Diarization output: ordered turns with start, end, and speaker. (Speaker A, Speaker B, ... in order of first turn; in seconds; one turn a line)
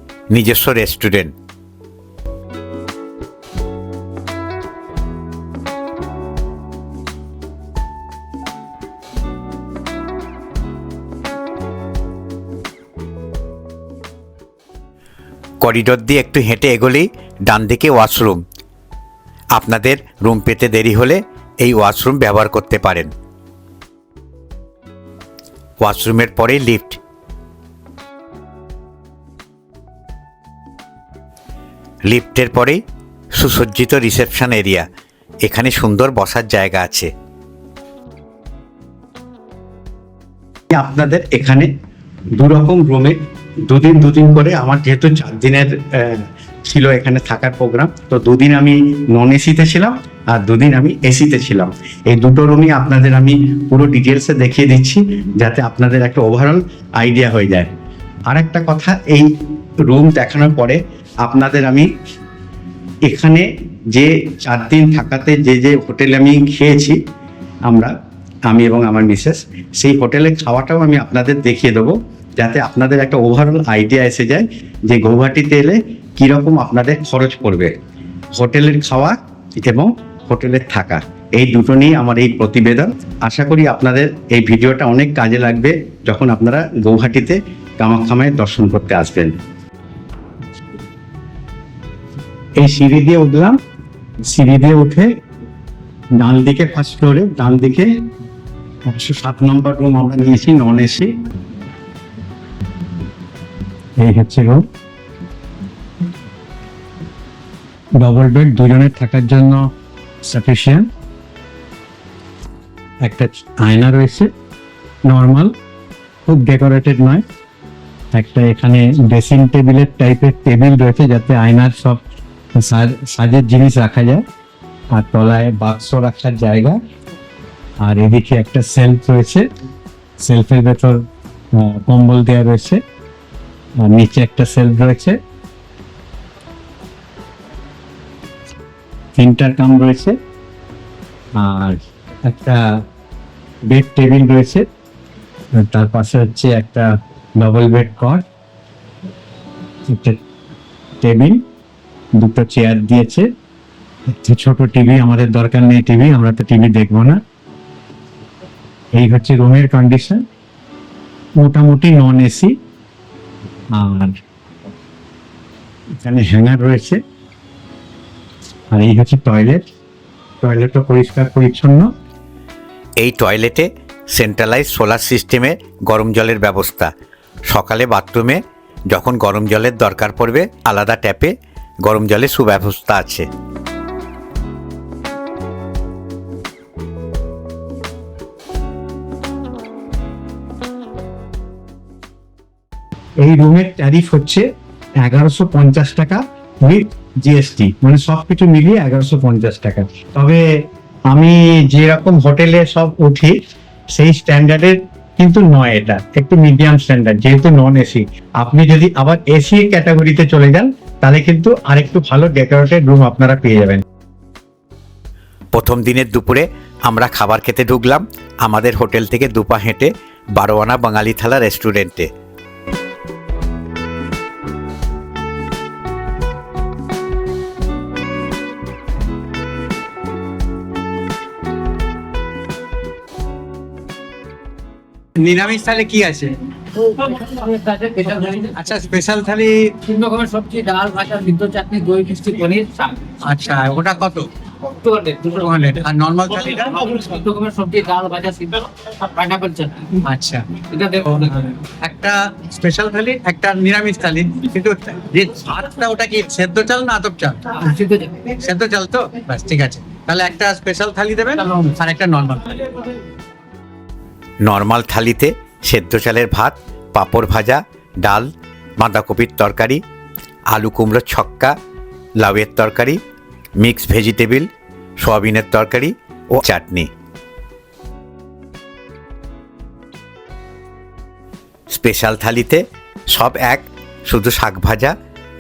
Speaker A: 0.3-1.3
Speaker A: 15.6-18.4
Speaker A: 19.5-23.1
Speaker A: 25.8-27.0
Speaker A: 32.1-32.8
Speaker A: 33.3-34.9
Speaker A: 35.4-37.1
Speaker B: 40.7-41.7
Speaker B: 42.4-57.7
Speaker B: 58.3-61.9
Speaker B: 63.0-67.0
Speaker B: 67.7-67.9
Speaker B: 68.5-77.8
Speaker B: 78.3-89.4
Speaker B: 92.6-93.6
Speaker B: 94.2-95.2
Speaker B: 96.2-97.9
Speaker B: 98.9-101.2
Speaker B: 104.0-104.6
Speaker B: 108.0-109.7
Speaker B: 110.2-110.9
Speaker B: 113.0-114.3
Speaker B: 115.1-115.5
Speaker B: 116.3-117.2
Speaker B: 118.1-122.0
Speaker B: 122.5-124.2
Speaker B: 124.9-126.8
Speaker B: 127.8-129.5
Speaker B: 130.2-132.8
Speaker B: 133.8-135.2
Speaker B: 139.2-140.2
Speaker B: 141.4-142.8
Speaker B: 143.7-144.7
Speaker B: 145.6-148.2
Speaker B: 149.9-150.2
Speaker B: 151.0-151.4
Speaker B: 152.2-153.3
Speaker B: 154.1-157.2
Speaker B: 159.0-160.3
Speaker B: 161.4-162.6
Speaker B: 163.7-164.2
Speaker B: 166.0-167.0
Speaker B: 168.7-169.6
Speaker B: 170.4-171.9
Speaker A: 173.0-176.9
Speaker A: 177.5-183.3
Speaker B: 193.2-194.5
Speaker B: 195.0-200.4
Speaker B: 201.1-203.4
Speaker B: 203.9-213.8
Speaker A: 215.5-222.1
Speaker B: 235.2-236.4
Speaker C: 236.8-238.6
Speaker B: 238.4-239.8
Speaker C: 239.8-243.1
Speaker B: 243.2-244.3
Speaker C: 244.8-245.6
Speaker B: 245.5-247.0
Speaker C: 246.7-250.0
Speaker B: 250.0-257.6
Speaker C: 250.8-251.3
Speaker C: 257.6-258.2
Speaker B: 258.2-262.7
Speaker A: 264.4-269.8
Speaker A: 270.5-271.6
Speaker A: 272.2-273.0
Speaker A: 273.6-276.9
Speaker A: 281.7-285.0